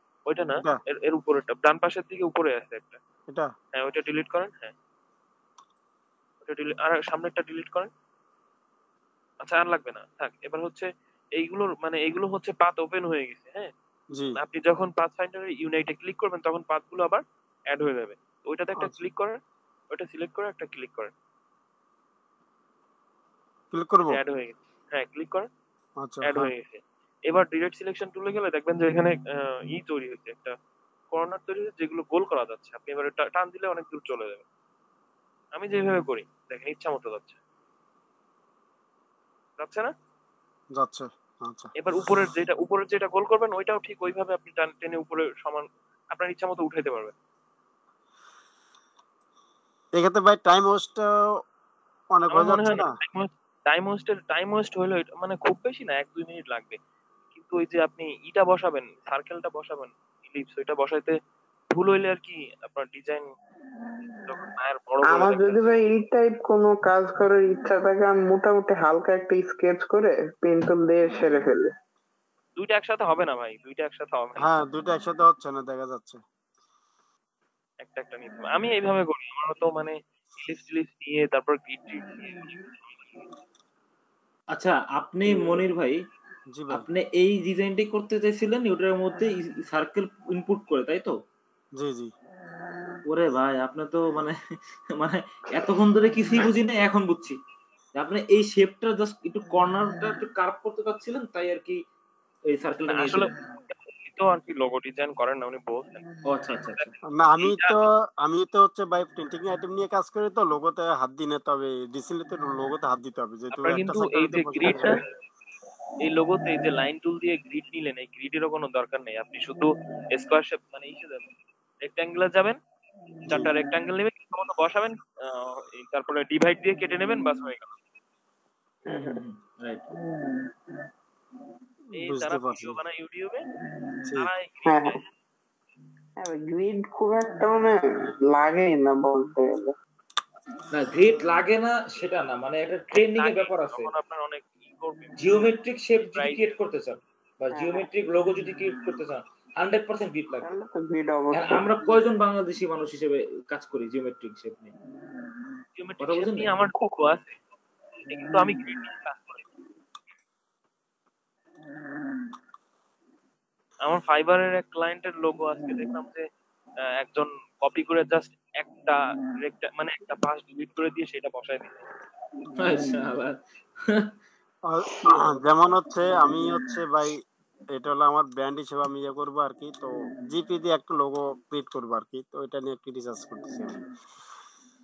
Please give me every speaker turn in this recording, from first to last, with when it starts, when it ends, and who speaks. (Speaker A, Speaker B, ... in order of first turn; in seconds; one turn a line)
Speaker A: 0.3-3.0
Speaker A: 3.7-4.7
Speaker A: 6.4-7.9
Speaker A: 9.4-13.7
Speaker B: 14.1-14.4
Speaker A: 14.4-19.4
Speaker B: 18.8-19.0
Speaker A: 19.9-21.1
Speaker B: 23.7-24.2
Speaker A: 24.1-25.5
Speaker B: 26.0-26.5
Speaker A: 26.2-30.5
Speaker A: 31.1-34.4
Speaker A: 35.6-37.4
Speaker A: 39.6-39.9
Speaker B: 40.8-41.7
Speaker A: 41.8-47.1
Speaker B: 50.0-51.1
Speaker B: 52.1-52.9
Speaker A: 52.3-56.8
Speaker A: 57.3-61.1
Speaker A: 61.7-63.3
Speaker A: 64.3-65.8
Speaker C: 65.0-71.7
Speaker A: 72.6-74.6
Speaker B: 74.4-76.2
Speaker A: 77.8-83.1
Speaker D: 84.5-86.0
Speaker B: 86.5-86.9
Speaker D: 86.7-91.2
Speaker B: 91.8-92.1
Speaker D: 93.1-94.4
Speaker D: 94.9-97.4
Speaker D: 98.0-101.8
Speaker D: 102.5-103.3
Speaker A: 102.9-106.0
Speaker D: 106.3-106.9
Speaker A: 106.8-107.8
Speaker B: 107.1-115.0
Speaker A: 113.5-115.0
Speaker C: 114.6-114.9
Speaker A: 116.0-121.3
Speaker A: 121.8-122.6
Speaker A: 123.3-127.7
Speaker C: 128.9-129.2
Speaker D: 128.9-129.8
Speaker A: 131.9-133.4
Speaker B: 131.9-132.8
Speaker A: 134.1-135.0
Speaker C: 134.7-135.0
Speaker C: 136.2-139.7
Speaker D: 140.7-143.9
Speaker A: 142.9-145.3
Speaker D: 145.2-150.5
Speaker A: 146.1-146.5
Speaker C: 147.5-147.9
Speaker C: 150.4-151.8
Speaker D: 151.3-154.7
Speaker A: 155.8-157.4
Speaker D: 156.0-156.5
Speaker A: 158.1-159.5
Speaker A: 163.8-166.2
Speaker A: 167.0-171.8
Speaker D: 172.6-174.1
Speaker B: 174.7-177.2
Speaker B: 177.7-183.8